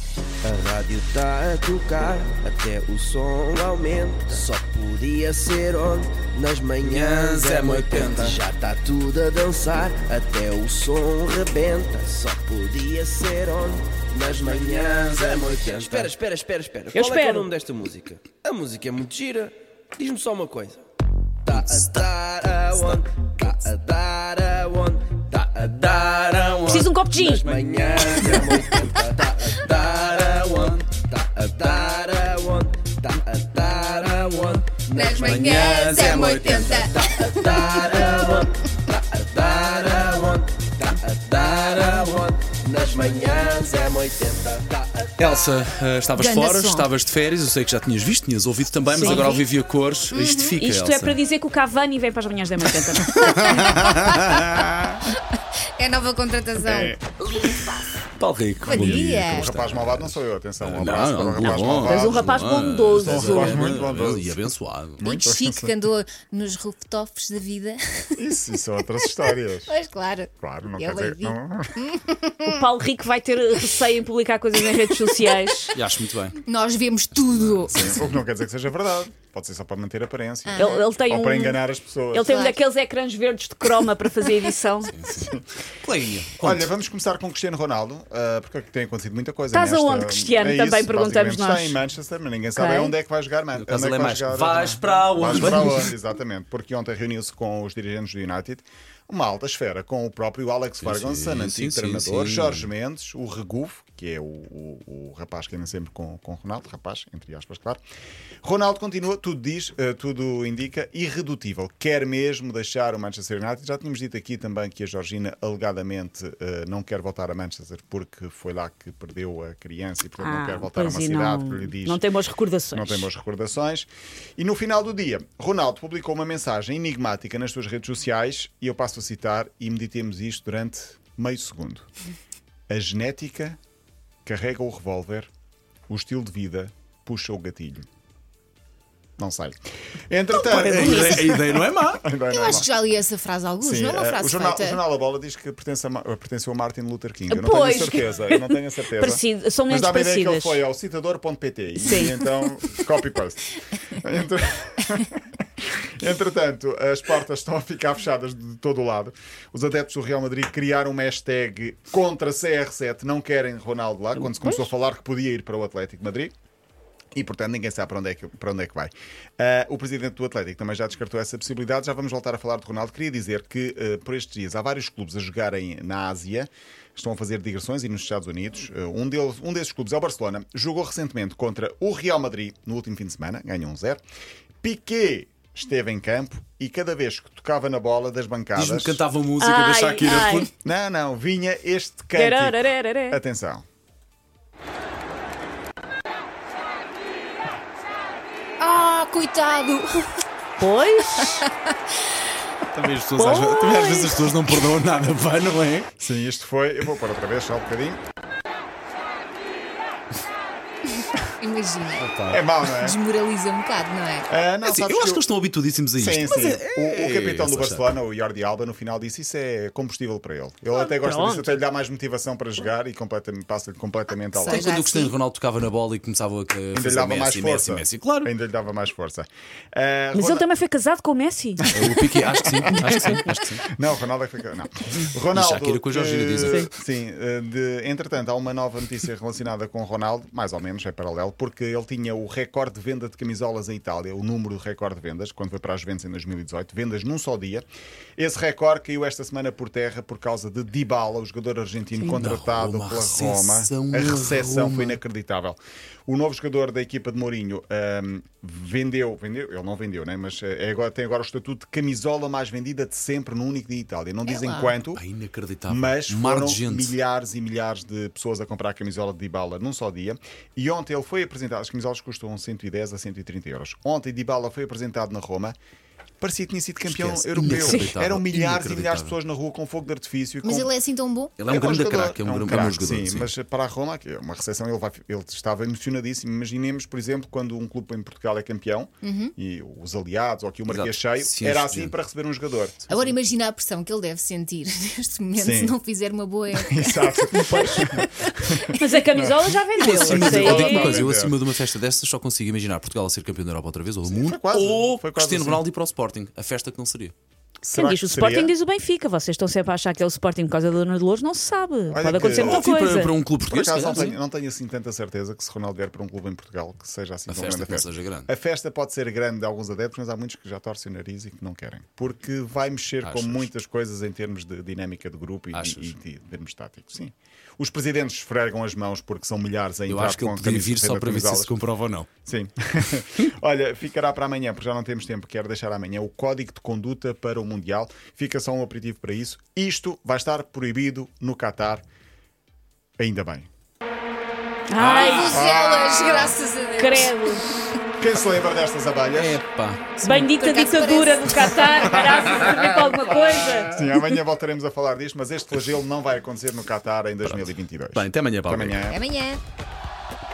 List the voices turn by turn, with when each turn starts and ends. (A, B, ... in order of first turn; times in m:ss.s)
0:00.4-0:20.8 A
0:06.9-0:08.4 B
0:16.9-0:17.4 C
0:21.4-0:45.3 A
0:21.6-0:22.0 B
0:26.6-0:27.5 C
0:27.5-0:28.3 B
0:34.9-0:37.9 D
0:35.1-0:36.9 B
0:45.2-0:51.2 B
0:46.2-0:46.9 D
0:48.9-0:49.4 C
0:50.1-0:50.6 D
0:50.6-0:53.2 C
0:53.1-0:54.3 B
0:53.2-0:54.6 D
0:54.2-0:55.0 E
0:55.8-0:57.8 D
0:56.6-0:57.0 E
0:58.2-1:05.1 B
0:58.7-0:59.5 D
0:58.7-1:02.4 E
1:01.8-1:03.7 C
1:03.0-1:04.4 E
1:05.0-1:08.2 D
1:05.0-1:05.7 E
1:08.2-1:09.7 E
1:09.2-1:12.6 D
1:10.4-1:11.8 E
1:12.4-1:15.7 C
1:15.7-1:16.4 B
1:16.4-1:18.1 D
1:17.7-1:22.3 E
1:20.5-1:20.9 D
1:20.6-1:21.6 C
1:22.1-1:24.9 C
1:22.3-1:22.6 D
1:24.9-1:26.7 B
1:25.2-1:25.4 E
1:26.4-1:47.8 E
1:29.5-1:31.8 C
1:32.6-1:32.9 C
1:33.6-1:35.9 B
1:40.8-1:42.7 B
1:48.4-2:02.0 E
2:00.2-2:03.1 C
2:02.7-2:11.9 E
2:12.7-2:13.6 E
2:14.2-2:15.3 E
2:15.9-2:17.8 E
2:19.2-2:19.6 E
2:20.1-2:22.7 E
2:20.5-2:22.0 B
2:20.7-2:21.2 C
2:22.3-2:24.8 D
2:23.6-2:46.3 E
2:27.3-2:30.6 C
2:31.8-2:32.1 C
2:47.2-3:04.0 E
3:04.6-3:09.0 E
3:08.6-3:10.5 B
3:09.4-3:10.5 C
3:10.5-3:13.7 E
3:12.2-3:13.2 C
3:18.6-3:20.2 D
3:20.6-3:21.4 C
3:21.2-3:21.7 D
3:22.7-3:25.9 B
3:23.2-3:24.2 C
3:26.0-3:28.0 E
3:30.9-3:32.1 D
3:32.0-3:32.4 B
3:32.3-3:33.0 E
3:32.7-3:34.3 D
3:34.3-3:35.3 E
3:34.6-3:37.9 B
3:35.9-3:44.7 E
3:40.8-3:41.6 C
3:44.3-3:45.1 D
3:44.5-3:48.3 B
3:46.7-3:50.5 E
3:50.1-3:51.6 C
3:51.6-4:07.6 E
3:51.7-3:53.6 B
3:52.8-3:53.2 C
3:55.3-3:56.7 B
4:08.2-4:25.0 E
4:12.0-4:15.0 B
4:24.2-4:24.8 D
4:24.9-4:26.9 B
4:25.7-4:35.5 E
4:36.2-4:40.7 E
4:36.8-4:39.1 B
4:37.5-4:37.9 C
4:40.4-4:41.4 D
4:41.4-4:43.3 B
4:41.5-4:52.9 E
4:49.0-4:49.3 D
4:50.7-4:51.9 B
4:52.9-4:58.8 D
4:55.4-4:55.8 E
4:56.5-5:01.4 E
4:57.4-4:57.8 C
4:58.8-5:01.0 C
4:59.8-5:07.1 B
5:04.0-5:05.6 E
5:07.6-5:08.5 E
5:07.7-5:13.1 C
5:11.9-5:12.6 E
5:12.4-5:14.1 B
5:13.5-5:31.5 E
5:17.3-5:18.3 B
5:23.0-5:23.5 B
5:25.5-5:25.9 B
5:29.9-5:32.1 B
5:32.2-5:41.8 E
5:43.0-5:43.5 E
5:44.7-5:45.3 C
5:44.8-5:45.5 B
5:45.0-5:47.7 D
5:45.3-5:46.4 E
5:46.7-5:47.5 C
5:48.0-5:49.4 E
5:49.1-5:50.0 B
5:50.0-5:52.9 D
5:50.0-5:53.7 C
5:53.7-5:59.0 E
5:57.2-5:58.8 B
5:58.9-5:59.4 D